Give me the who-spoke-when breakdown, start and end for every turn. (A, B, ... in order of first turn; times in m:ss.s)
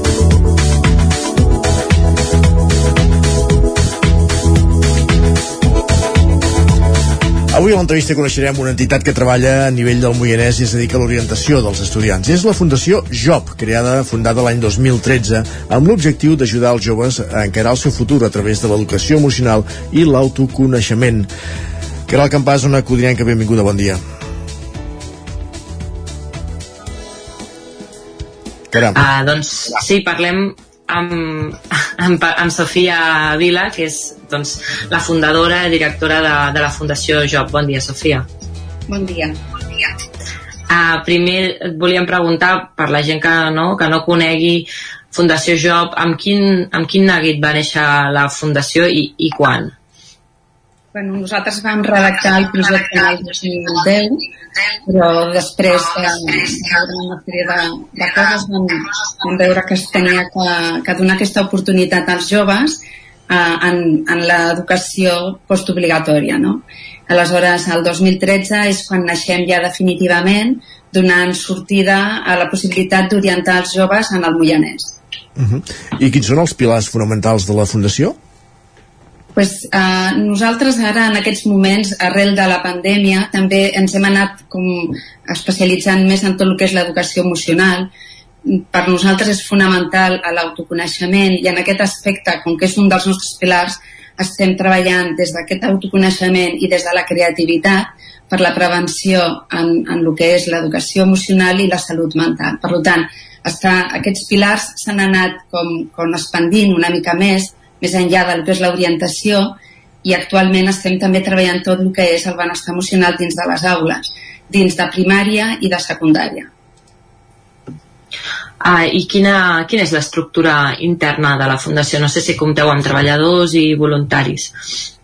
0:07.5-0:21.3 A
0:22.1-0:24.0 A
0:28.7-0:29.0 A
0:29.0-0:38.3 B
0:38.9-0:39.4 C
0:40.7-0:49.7 B
0:50.9-0:54.2 C
0:54.8-1:15.0 C
1:15.4-1:18.2 A
1:19.4-1:27.9 C
1:28.5-1:56.5 C
1:58.6-2:04.5 B